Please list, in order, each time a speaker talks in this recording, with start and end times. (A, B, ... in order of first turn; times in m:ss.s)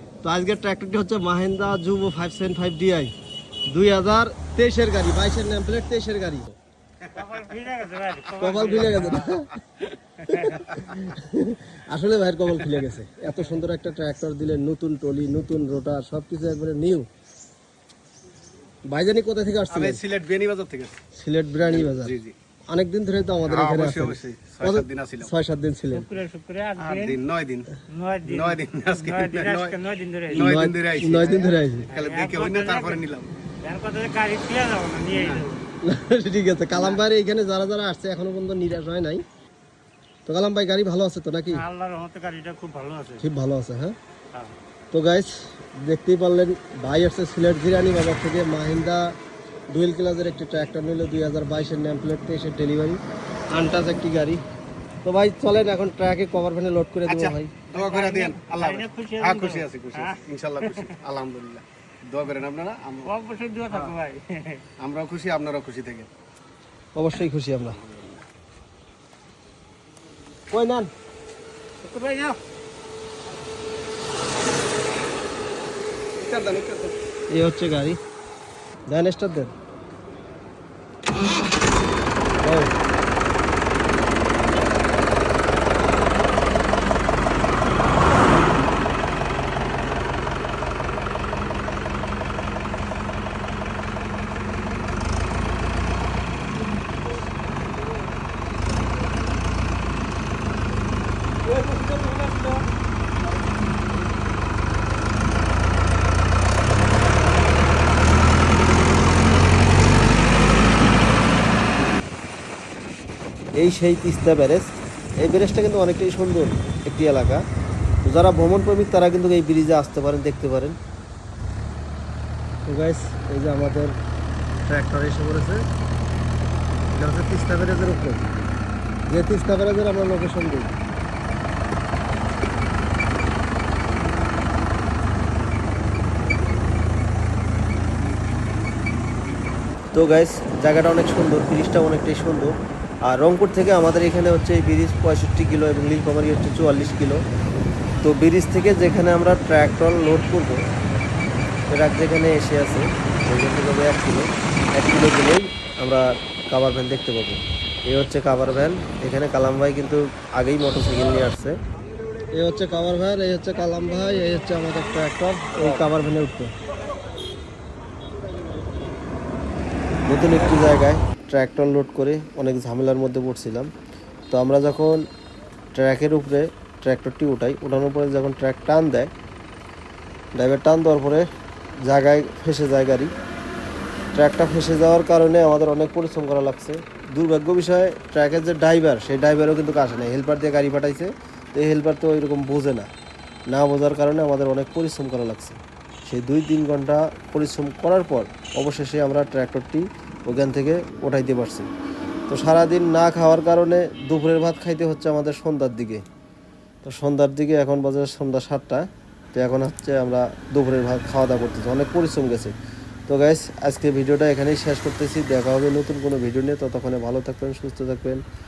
0:00.2-0:03.1 A
0:03.7-0:06.6 A
0:07.1-0:10.8 B
0:08.4-0:09.6 A
0:10.3-0:17.1 A
0:18.9-0:20.0 A
0:19.7-0:21.0 C
0:21.1-0:22.2 A
0:21.6-0:22.3 C
0:22.7-0:26.1 A
0:23.4-0:25.3 C
0:25.9-0:27.2 B
0:26.8-0:27.7 C
0:27.9-0:30.6 B
0:28.2-0:29.8 C
0:30.3-0:33.4 C
0:30.3-0:31.9 A
0:31.9-0:33.0 B
0:33.6-0:35.7 B
0:35.1-0:35.4 C
0:35.8-0:39.2 A
0:40.3-0:41.6 A
0:41.5-0:43.2 B
0:43.2-0:44.0 A
0:44.9-0:49.1 A
0:49.7-0:53.0 A
0:53.5-0:54.4 A
0:55.0-0:57.5 A
0:57.1-1:03.1 C
0:57.7-1:01.0 B
1:03.0-1:04.6 B
1:03.7-1:04.0 C
1:04.8-1:06.1 C
1:07.0-1:07.8 A
1:07.8-1:08.2 C
1:10.5-1:10.9 A
1:11.8-1:12.4 B
1:16.2-1:16.9 C
1:17.3-1:18.0 A
1:18.9-1:19.5 A
1:22.4-1:22.7 A
1:53.6-1:54.7 A
1:55.2-1:57.4 A
1:58.0-2:00.8 A
2:02.7-2:04.0 A
2:04.6-2:05.6 A
2:06.9-2:08.3 A
2:09.1-2:10.8 A
2:19.9-2:22.5 A
2:23.0-2:27.2 A
2:28.0-2:30.6 A
2:31.7-2:41.6 A
2:42.3-2:46.5 A
2:50.1-2:53.7 A
2:54.3-2:55.1 A
2:55.8-2:59.1 A
3:00.4-3:01.3 A
3:01.8-3:03.1 A
3:04.2-3:12.9 A
3:13.5-3:21.7 A
3:22.3-3:26.0 A
3:26.8-3:32.5 A
3:33.1-3:38.2 A